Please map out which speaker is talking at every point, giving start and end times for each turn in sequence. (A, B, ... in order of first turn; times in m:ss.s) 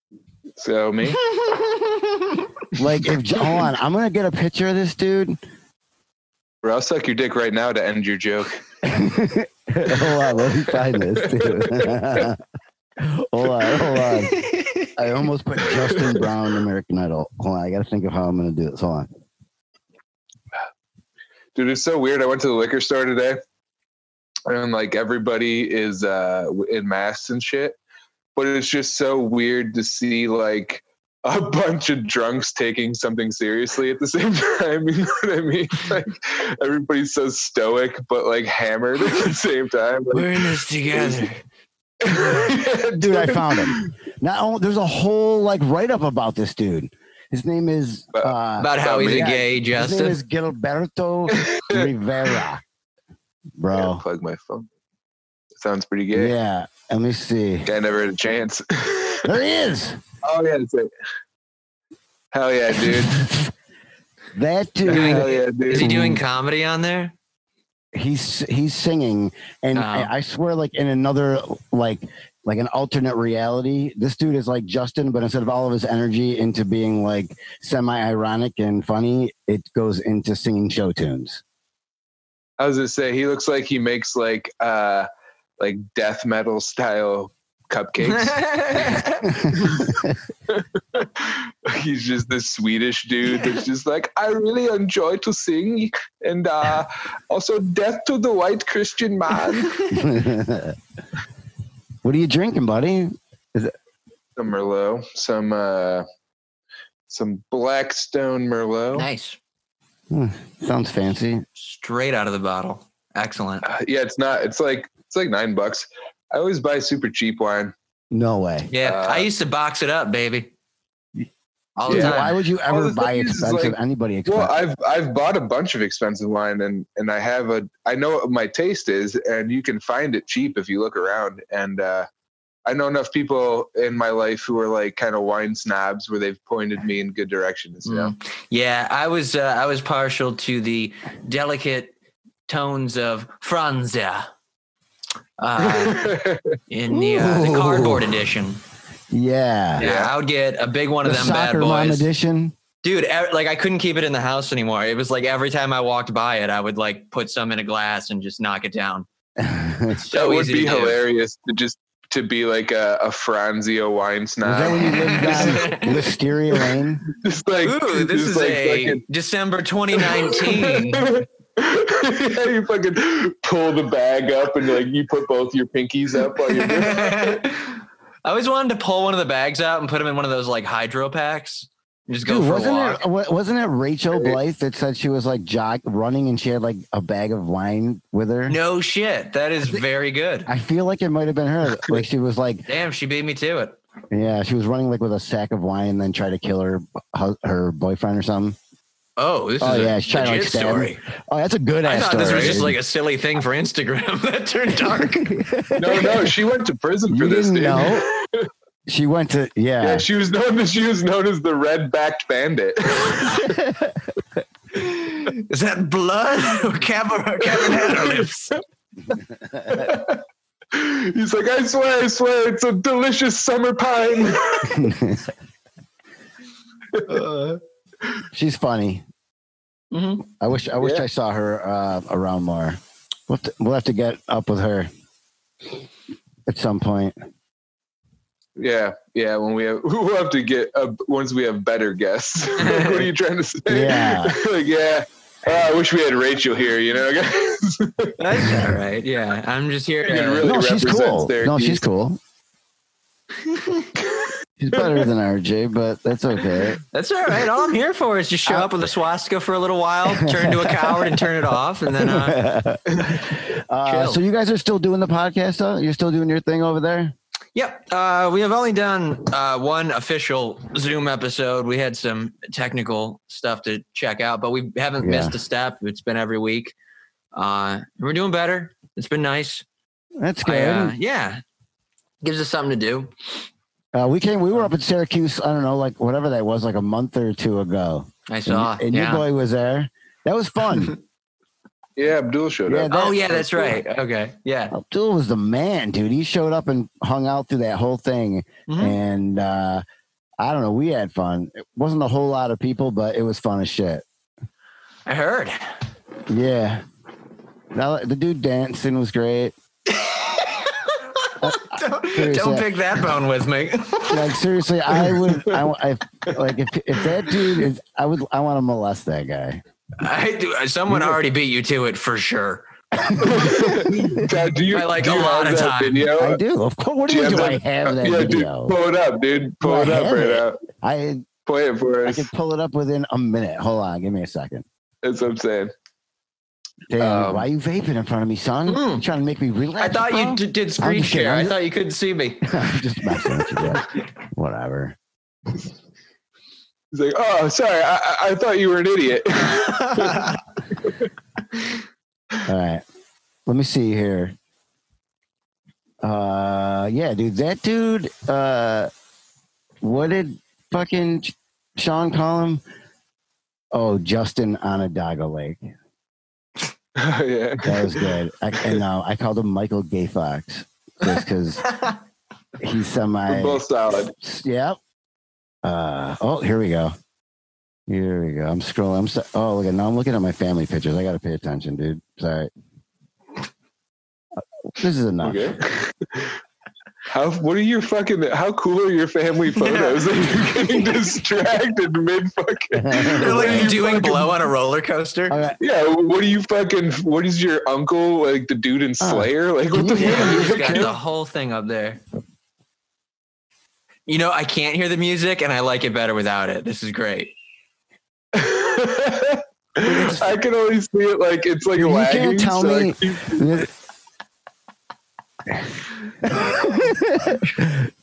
0:00.6-0:01.2 A
0:01.3-0:02.3 B
0:02.8-0:05.4 C
0:06.6-0:08.6 A
0:08.8-0:12.4 C
0:10.8-0:12.2 A
0:13.0-0:14.4 C
0:14.3-0:14.9 B
0:15.0-0:19.1 C
0:15.8-0:16.3 A
0:21.6-0:23.4 A
0:24.5-0:27.8 A
0:28.4-0:41.4 A
0:40.1-0:41.4 B
0:42.0-0:43.9 A
0:43.0-0:52.6 C
0:48.1-0:49.5 A
0:48.6-0:50.2 B
0:51.3-0:51.9 A
0:53.6-0:54.0 C
0:53.7-0:54.7 A
0:55.6-0:56.4 A
0:56.1-0:57.7 C
0:57.7-0:59.3 A
0:59.2-1:00.0 C
1:00.2-1:00.9 A
1:02.3-1:03.3 A
1:03.2-1:03.5 C
1:04.3-1:06.2 C
1:04.9-1:06.2 A
1:04.9-1:07.2 B
1:07.9-1:21.4 C
1:09.8-1:10.1 B
1:22.6-1:25.1 A
1:25.6-1:28.9 A
1:28.1-1:29.3 B
1:29.5-1:39.8 A
1:39.9-1:40.8 C
1:42.0-1:43.7 C
1:44.4-1:46.0 A
1:47.1-1:49.1 A
1:48.9-1:49.4 B
1:50.1-1:51.4 C
1:51.6-1:53.7 B
1:53.6-1:57.7 A
1:58.1-1:58.7 C
1:58.7-2:00.5 B
1:58.8-1:59.3 A
2:01.8-2:02.4 B
2:01.9-2:04.6 C
2:01.9-2:12.1 A
2:12.7-2:18.1 A
2:17.8-2:22.0 B
2:22.5-2:24.3 B
2:25.4-2:26.0 B
2:25.6-2:26.6 A
2:26.7-2:28.6 B
2:26.9-2:28.2 C
2:29.1-2:29.9 C
2:29.8-2:30.1 A
2:29.8-2:32.1 B
2:31.0-2:32.6 C
2:32.8-2:39.1 B
2:39.4-2:40.0 C
2:39.9-2:41.0 B
2:40.1-2:45.6 A
2:44.4-2:47.0 C
2:44.8-2:46.0 B
2:47.1-2:49.0 A
2:47.6-2:51.1 B
2:50.0-2:57.4 A
2:56.5-3:03.0 B
3:02.2-3:08.6 C
3:08.5-3:10.5 B
3:10.5-3:12.7 C
3:12.7-3:13.8 B
3:14.1-3:18.6 C
3:19.2-3:21.0 B
3:19.6-3:22.8 C
3:21.8-3:25.4 B
3:22.3-3:22.6 A
3:25.2-3:26.4 C
3:25.8-3:28.5 A
3:27.1-3:28.1 C
3:28.9-3:30.1 C
3:29.8-3:33.6 A
3:33.5-3:34.0 C
3:34.8-3:38.5 B
3:37.5-3:38.3 A
3:39.7-3:44.9 A
3:44.6-3:45.3 C
3:46.9-3:47.3 A
3:47.1-3:47.6 B
3:48.3-3:49.0 C
3:49.9-3:50.2 B
3:50.4-3:52.8 C
3:53.3-3:54.9 C
3:56.5-3:57.2 C
3:58.6-4:08.1 A
4:02.6-4:03.0 B
4:03.7-4:04.4 C
4:08.2-4:10.5 B
4:10.0-4:11.8 A
4:10.4-4:12.2 C
4:13.4-4:13.9 B
4:14.6-4:16.8 C
4:16.9-4:22.4 B
4:18.5-4:18.7 C
4:20.1-4:21.3 C
4:22.0-4:27.1 C
4:23.8-4:24.2 B
4:27.6-4:36.8 B
4:35.0-4:35.4 C
4:37.3-4:39.6 B
4:40.2-4:41.0 C
4:40.4-4:41.4 B
4:42.2-4:43.1 B
4:43.9-4:51.0 C
4:48.3-4:49.3 B
4:52.0-4:53.0 A
4:52.7-4:53.8 C
4:52.9-4:54.8 B
4:54.7-4:59.8 C
4:58.7-4:59.0 B
5:00.4-5:04.0 C
5:05.1-5:05.7 B
5:06.3-5:06.8 C
5:07.7-5:09.5 C
5:09.9-5:14.4 B
5:11.4-5:12.7 C
5:14.1-5:19.6 C
5:20.0-5:22.7 B
5:23.0-5:24.3 C
5:23.2-5:26.4 A
5:24.7-5:26.1 B
5:26.2-5:28.7 C
5:27.1-5:30.6 A
5:29.6-5:31.3 C
5:31.5-5:32.3 A
5:32.0-5:34.6 C
5:35.0-5:35.7 A
5:36.9-5:41.6 C
5:37.0-5:37.5 A
5:38.7-5:39.0 B
5:39.8-5:42.5 B
5:42.4-5:45.0 C
5:46.9-5:51.0 A
5:49.8-5:50.4 B
5:52.5-5:52.8 C
5:53.5-5:54.4 C
5:56.0-5:58.9 C
5:59.8-6:02.6 C
6:03.7-6:05.7 C
6:07.0-6:08.8 A
6:07.6-6:11.7 C
6:12.6-6:13.6 C
6:13.3-6:14.1 A
6:14.2-6:14.8 C
6:15.6-6:16.9 C
6:17.9-6:22.5 C
6:24.7-6:25.6 C
6:25.2-6:26.4 A
6:27.1-6:34.4 A
6:29.6-6:30.0 B
6:32.7-6:33.8 C
6:33.2-6:35.4 B
6:35.3-6:35.6 C
6:35.6-6:40.9 A
6:39.0-6:40.9 C
6:40.0-6:42.0 B
6:44.1-6:47.3 B
6:48.3-6:53.6 A
6:49.8-6:50.4 C
6:51.8-6:53.7 C
6:56.3-6:57.9 C